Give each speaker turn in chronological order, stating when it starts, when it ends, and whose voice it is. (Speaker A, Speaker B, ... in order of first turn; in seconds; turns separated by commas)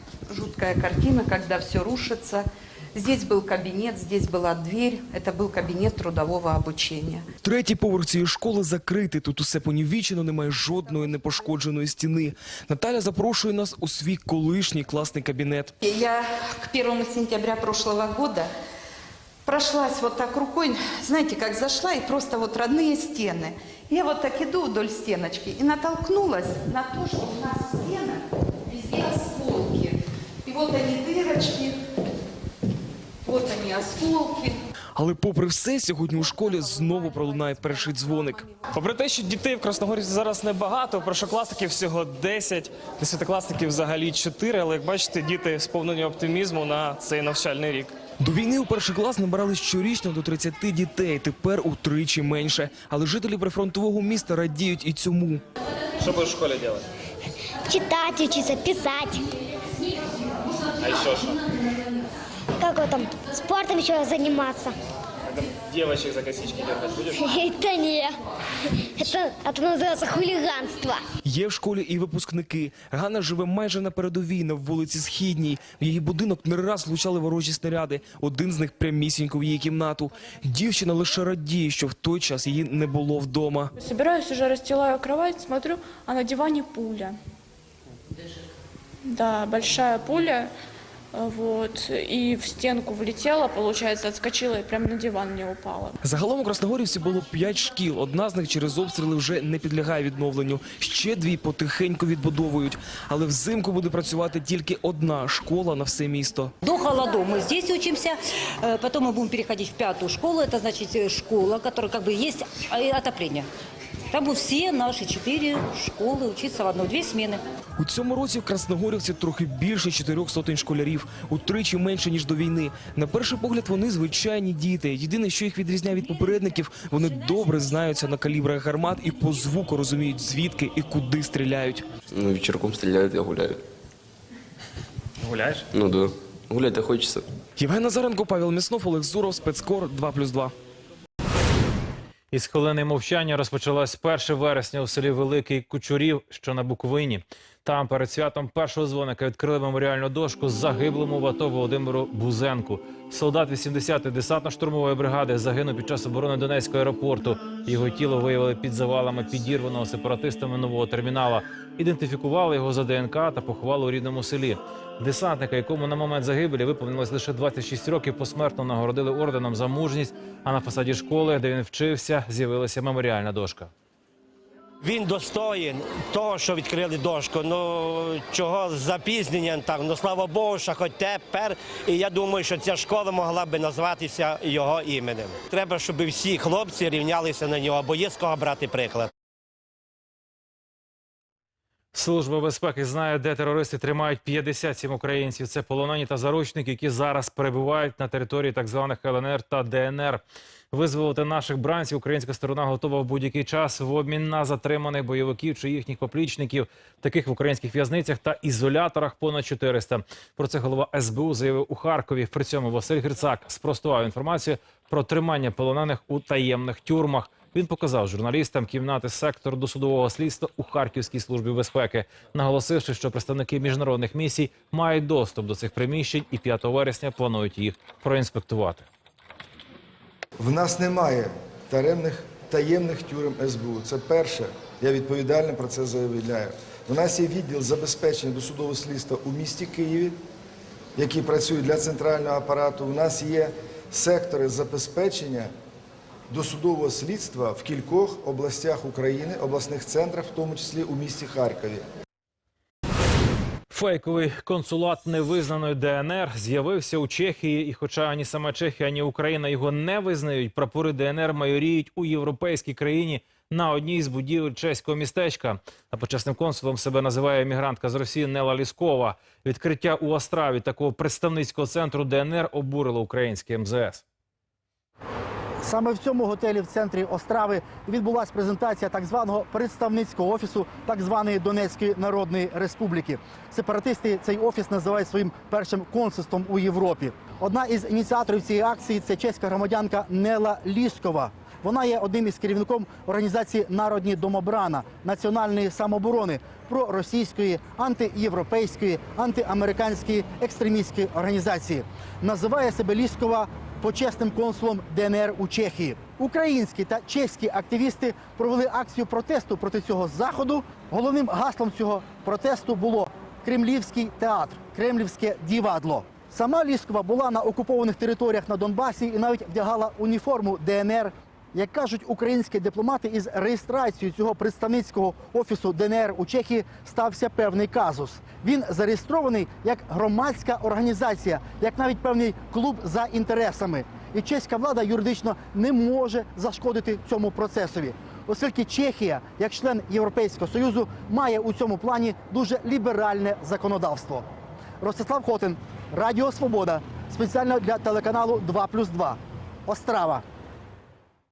Speaker A: 0.3-7.3, Speaker B: 7.4-15.7, Speaker A: 15.8-18.5, Speaker A: 19.4-31.8, Speaker A: 33.2-34.6, Speaker B: 35.0-38.5, Speaker C: 38.7-47.9, Speaker B: 48.2-55.4, Speaker C: 56.0-56.8, Speaker D: 57.7-59.2, Speaker D: 62.6-64.7, Speaker C: 66.3-66.7, Speaker D: 67.1-68.2, Speaker D: 69.0-71.0, Speaker B: 71.2-83.7, Speaker E: 83.8-87.2, Speaker E: 89.1-90.5, Speaker E: 91.1-95.9, Speaker B: 96.0-106.5, Speaker F: 106.6-113.5, Speaker F: 114.1-117.4, Speaker B: 117.8-131.8, Speaker G: 132.1-133.6, Speaker G: 135.7-137.2, Speaker B: 137.6-140.5, Speaker H: 142.3-173.7, Speaker I: 174.8-189.1, Speaker H: 191.9-228.9, Speaker J: 230.4-240.1, Speaker J: 241.0-245.5, Speaker J: 246.3-251.8, Speaker H: 253.7-274.0, Speaker K: 275.6-344.2, Speaker K: 344.8-350.2